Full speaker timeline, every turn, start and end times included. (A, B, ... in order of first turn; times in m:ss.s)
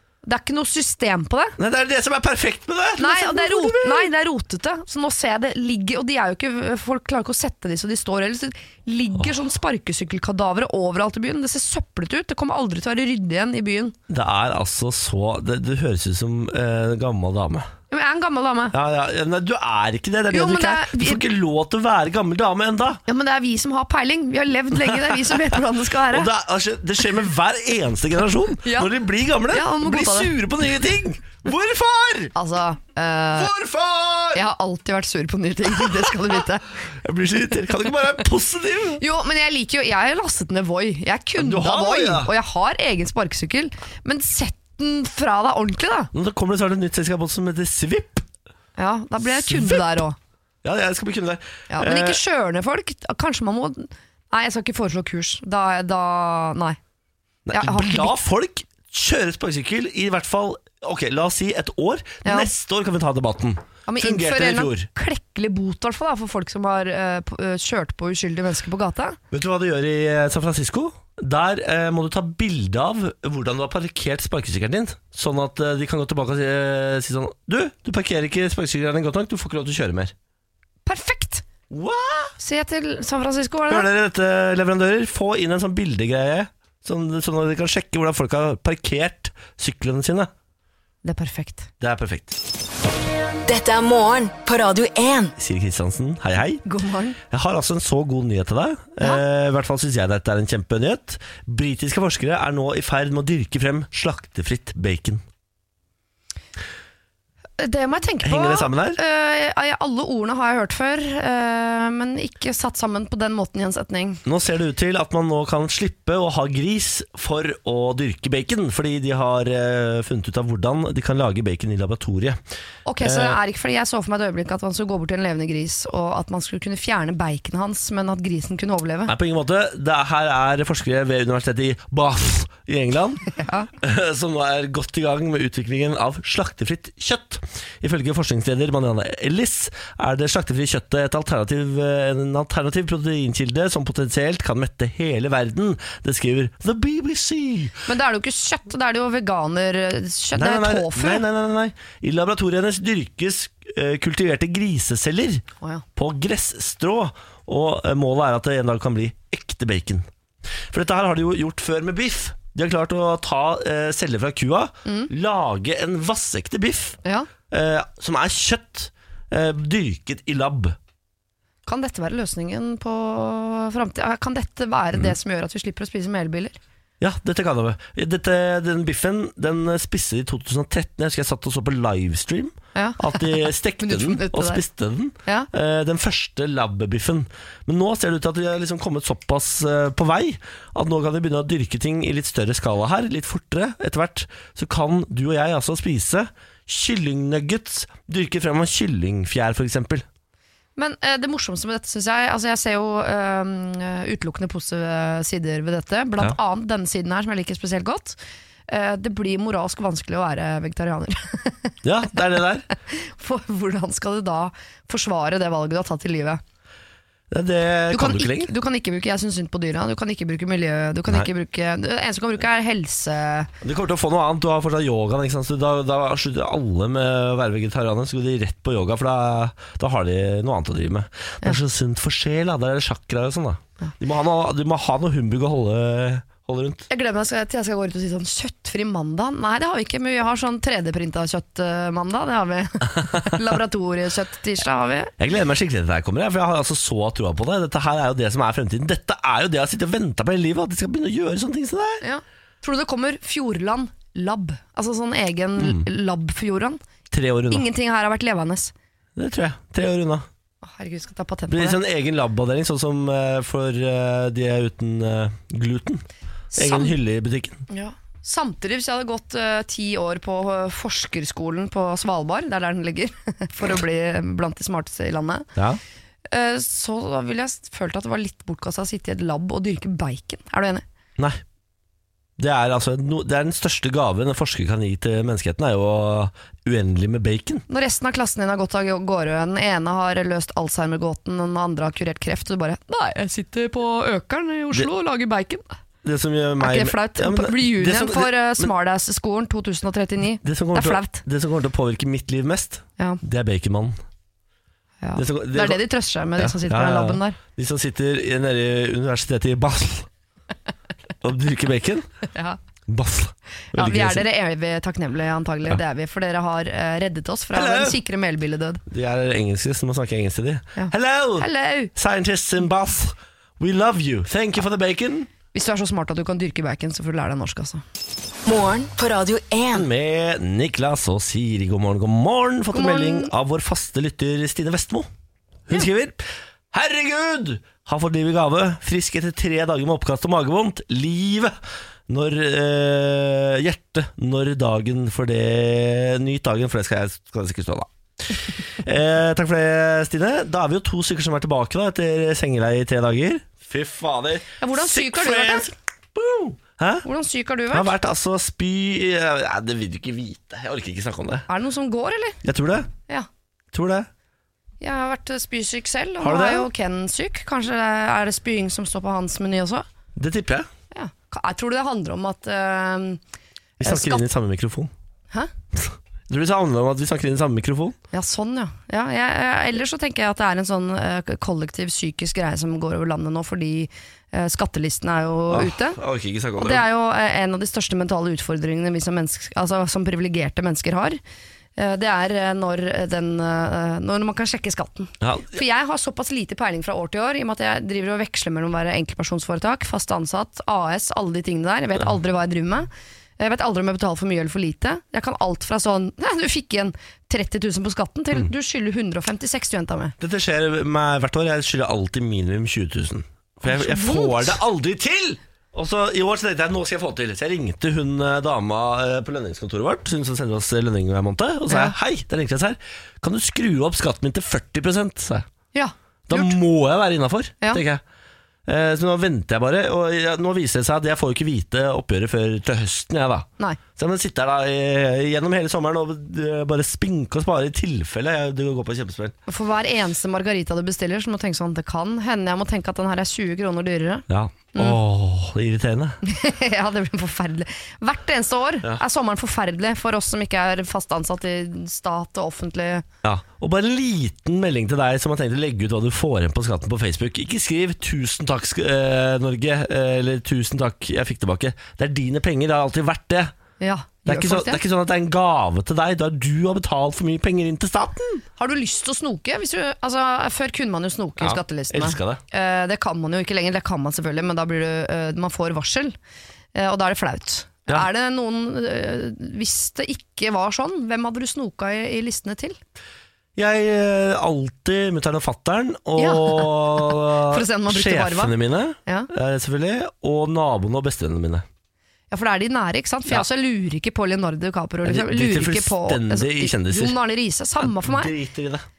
0:00.2-0:01.6 A
0:01.6-0:04.1 B
0:03.0-0:14.0 A
0:14.1-0:17.7 B
0:17.9-0:18.7 A
0:18.7-0:23.0 B
0:20.3-0:21.2 A
0:23.1-0:26.3 A
0:26.1-0:32.3 B
0:28.6-0:28.9 A
0:29.5-0:30.3 A
0:32.3-0:33.5 A
0:33.3-0:34.4 B
0:34.3-0:36.6 A
0:37.0-0:39.0 B
0:39.0-0:46.1 A
0:41.4-0:42.3 B
0:46.1-0:48.3 B
0:48.8-0:50.2 A
0:49.2-0:49.8 B
0:50.6-0:52.2 B
0:51.7-0:56.8 A
0:57.5-1:04.9 B
0:57.5-0:58.2 A
1:02.2-1:02.5 A
1:03.8-1:09.2 A
1:09.3-1:20.1 B
1:20.8-1:21.4 A
1:21.7-1:22.3 B
1:22.4-1:23.9 A
1:23.7-1:30.3 B
1:31.0-1:31.7 A
1:31.8-1:32.4 B
1:33.4-1:35.3 C
1:35.4-1:36.6 B
1:36.6-1:37.2 A
1:37.2-1:45.2 B
1:47.6-1:54.2 A
1:48.2-1:49.0 B
1:54.2-2:02.4 B
2:02.8-2:09.1 A
2:03.0-2:03.4 B
2:09.1-2:13.2 B
2:13.3-2:13.7 A
2:13.8-2:27.8 B
2:27.9-2:31.2 A
2:30.3-2:35.4 B
2:36.0-2:40.0 B
2:40.7-2:47.0 B
2:44.8-2:45.1 A
2:47.0-2:47.3 A
2:47.5-2:50.8 B
2:51.6-2:56.6 A
2:57.0-3:20.0 B
3:02.7-3:04.6 A
3:20.8-3:28.2 A
3:28.7-3:31.7 A
3:31.8-3:32.7 B
3:32.8-3:36.4 A
3:37.3-3:38.5 B
3:37.9-3:43.5 A
3:43.6-3:56.8 B
3:56.9-4:05.1 A
4:05.2-4:12.0 B
4:12.0-4:16.8 A
4:15.6-4:15.9 B
4:17.1-4:17.6 B
4:17.5-4:18.7 A
4:19.2-4:20.2 B
4:20.6-4:21.8 A
4:21.5-4:27.6 B
4:26.5-4:26.9 A
4:27.7-4:35.5 A
4:36.3-4:40.8 A
4:42.4-4:47.6 B
4:47.7-4:55.7 A
4:56.0-4:58.7 B
4:56.6-5:01.2 A
5:00.4-5:04.0 B
5:05.0-5:07.4 A
5:05.1-5:05.8 B
5:06.4-5:10.1 B
5:11.2-5:12.1 B
5:12.3-5:12.6 A
5:12.9-5:14.2 B
5:13.7-5:18.8 A
5:17.5-5:18.0 B
5:18.9-5:25.3 B
5:20.8-5:21.9 A
5:25.5-5:27.8 A
5:28.4-5:29.8 C
5:29.7-5:35.1 B
5:32.7-5:33.3 A
5:35.7-5:41.5 B
5:42.1-5:57.0 B
5:54.6-5:55.7 A
5:57.0-5:57.9 A
5:57.7-6:01.5 B
6:01.5-6:02.4 A
6:02.4-6:02.9 B
6:03.7-6:04.1 B
6:04.8-6:09.8 A
6:06.2-6:06.7 B
6:10.2-6:10.7 B
6:10.9-6:13.2 A
6:13.8-6:14.9 B
6:13.8-6:14.2 A
6:15.7-6:18.0 B
6:18.1-6:26.0 A
6:25.5-6:26.8 B
6:26.6-6:31.2 A
6:31.8-6:50.1 A
6:35.2-6:35.6 B
6:50.2-7:05.5 B
6:53.6-6:54.6 A
7:01.7-7:01.9 A
7:05.7-7:06.6 A
7:06.3-7:08.0 B
7:08.6-7:19.4 B
7:19.5-7:25.0 A
7:24.3-7:26.2 B
7:26.2-7:33.0 A
7:33.2-7:43.5 B
7:43.8-7:44.8 A
7:44.2-7:48.4 B
7:48.6-7:56.1 A
7:51.4-7:52.4 B
7:56.7-8:02.8 A
8:03.6-8:11.6 B
8:06.2-8:08.5 A
8:12.3-8:18.3 A
8:15.0-8:17.2 B
8:17.8-8:18.8 B